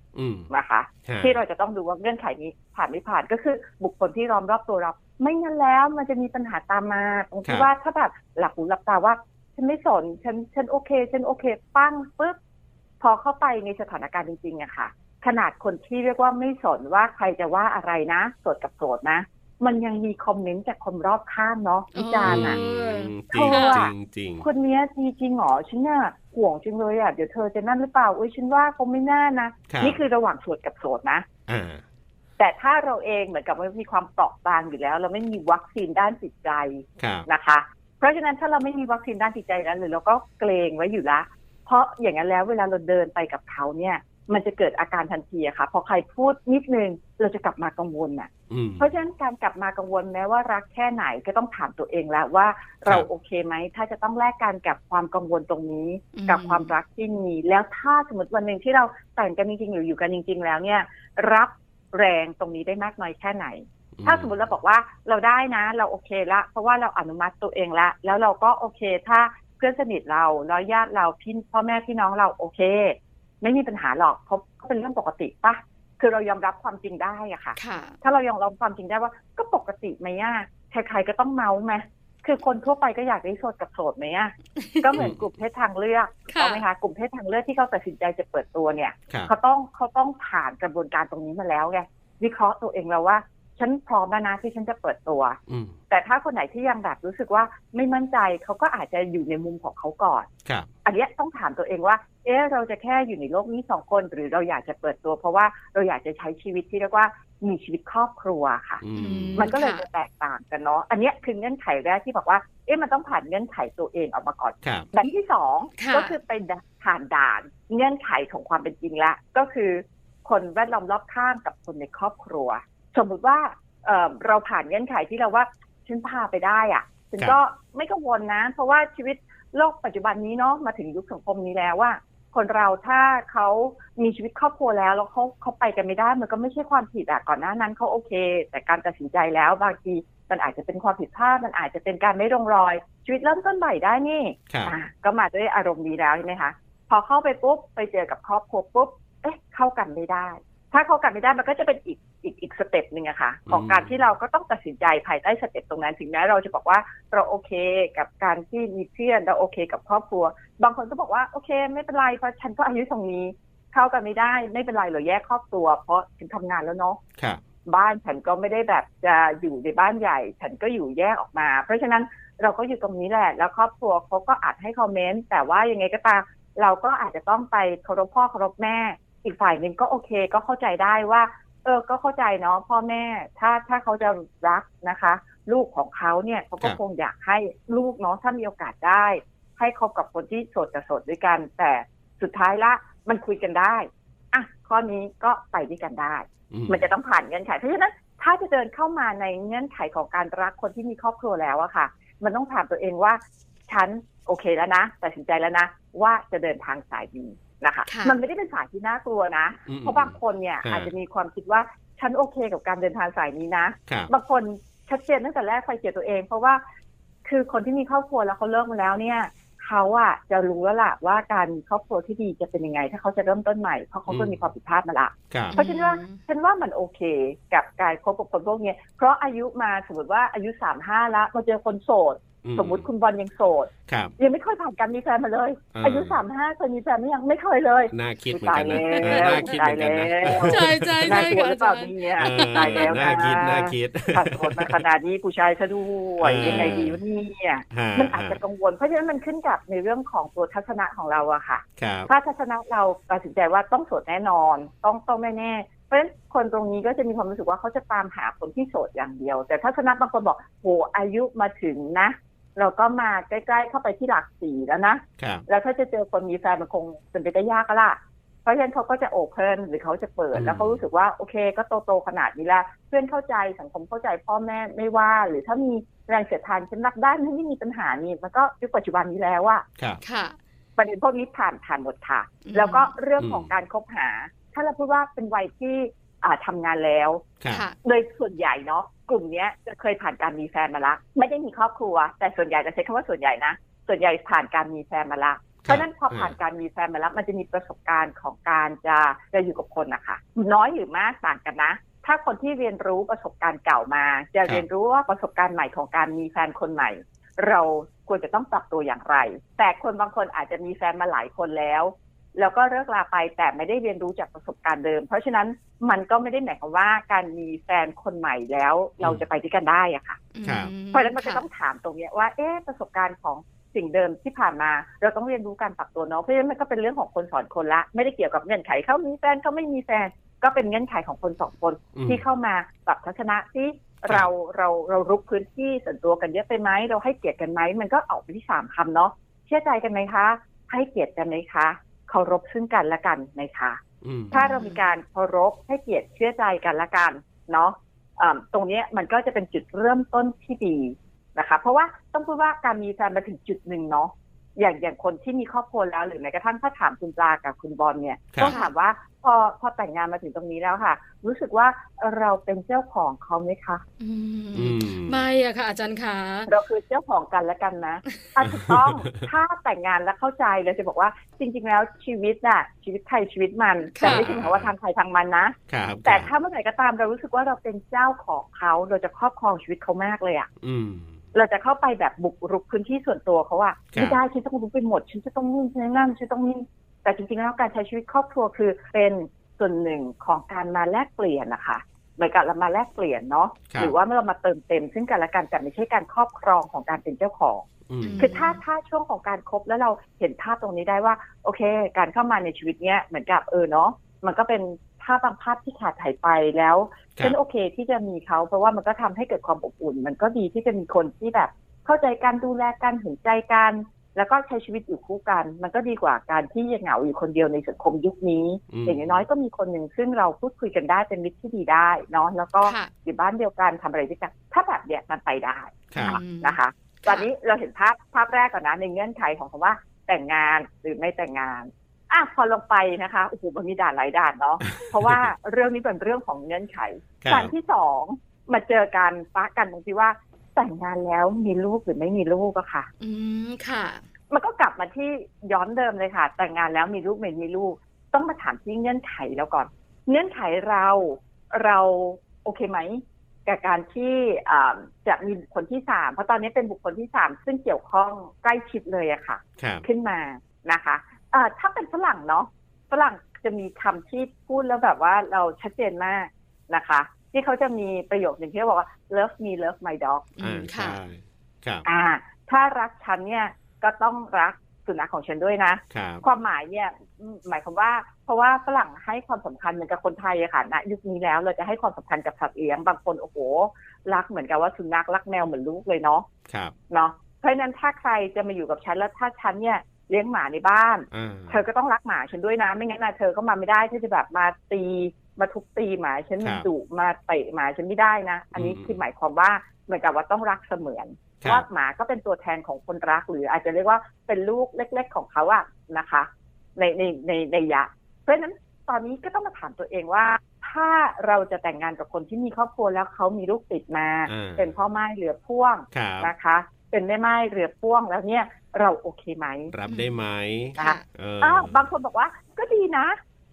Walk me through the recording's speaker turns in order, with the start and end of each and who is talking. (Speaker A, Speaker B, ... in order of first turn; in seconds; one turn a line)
Speaker A: 0.1-0.5
Speaker B: 0.5-12.4
Speaker A: 1.1-1.4
Speaker B: 13.0-22.6
Speaker C: 21.9-23.8
Speaker A: 22.2-24.4
Speaker B: 23.3-31.2
Speaker A: 29.7-30.0
Speaker A: 31.5-31.8
Speaker B: 32.4-95.4
Speaker A: 37.0-37.3
Speaker A: 48.5-48.9
Speaker C: 56.1-56.7
Speaker A: 64.0-64.3
Speaker C: 77.6-78.0
Speaker C: 86.3-86.6
Speaker A: 95.5-95.7
Speaker B: 95.9-100.3
Speaker B: 100.8-108.8
Speaker A: 108.8-109.5
Speaker C: 109.0-109.8
Speaker B: 109.3-167.0
Speaker C: 115.8-116.1
Speaker A: 144.5-144.7
Speaker A: 153.5-153.9
Speaker B: 167.6-216.6
Speaker A: 196.5-196.8
Speaker C: 207.9-208.2
Speaker A: 209.7-210.9
Speaker B: 217.2-279.6
Speaker A: 224.1-224.4
Speaker A: 225.3-225.6
Speaker C: 225.5-226.2
Speaker A: 232.4-232.9
Speaker A: 233.9-234.1
Speaker A: 235.7-236.2
Speaker A: 237.9-241.3
Speaker C: 238.9-239.5
Speaker C: 240.4-243.7
Speaker A: 242.2-244.8
Speaker A: 246.2-247.0
Speaker C: 246.4-246.8
Speaker A: 247.7-248.4
Speaker A: 251.8-252.1
Speaker A: 265.2-265.4
Speaker A: 270.3-270.8
Speaker C: 280.0-280.4
Speaker B: 280.8-287.2
Speaker C: 282.4-282.9
Speaker A: 283.2-283.5
Speaker C: 287.5-287.8
Speaker B: 287.8-320.2
Speaker A: 295.6-296.3
Speaker C: 320.3-321.4
Speaker A: 320.4-320.7
Speaker B: 320.9-343.8
Speaker A: 331.9-332.2
Speaker A: 344.0-344.4
Speaker B: 344.3-363.8
Speaker C: 344.3-344.8
Speaker C: 358.4-358.7
Speaker C: 364.0-366.5
Speaker A: 364.5-365.2
Speaker B: 366.5-380.5
Speaker A: 368.5-369.2
Speaker C: 374.0-374.2
Speaker A: 374.0-374.7
Speaker A: 375.7-376.3
Speaker A: 380.6-381.1
Speaker B: 381.3-397.6
Speaker A: 383.9-384.2
Speaker A: 397.9-398.3
Speaker C: 398.0-398.6
Speaker B: 398.2-442.9
Speaker A: 418.7-419.2
Speaker C: 422.6-422.9
Speaker A: 425.9-426.2
Speaker C: 426.0-427.3
Speaker A: 434.9-435.2
Speaker A: 437.2-437.5
Speaker C: 443.0-444.0
Speaker B: 444.3-470.3
Speaker A: 459.6-459.9
Speaker C: 470.4-471.0
Speaker A: 470.4-471.9
Speaker B: 471.9-486.3
Speaker A: 475.9-476.2
Speaker A: 486.5-486.7
Speaker B: 486.9-519.7
Speaker A: 491.1-491.6
Speaker A: 496.4-496.7
Speaker A: 498.5-499.0
Speaker A: 514.2-514.7
Speaker A: 515.9-516.3
Speaker A: 519.7-521.8
Speaker C: 519.9-520.1
Speaker C: 520.7-521.0
Speaker B: 520.8-523.2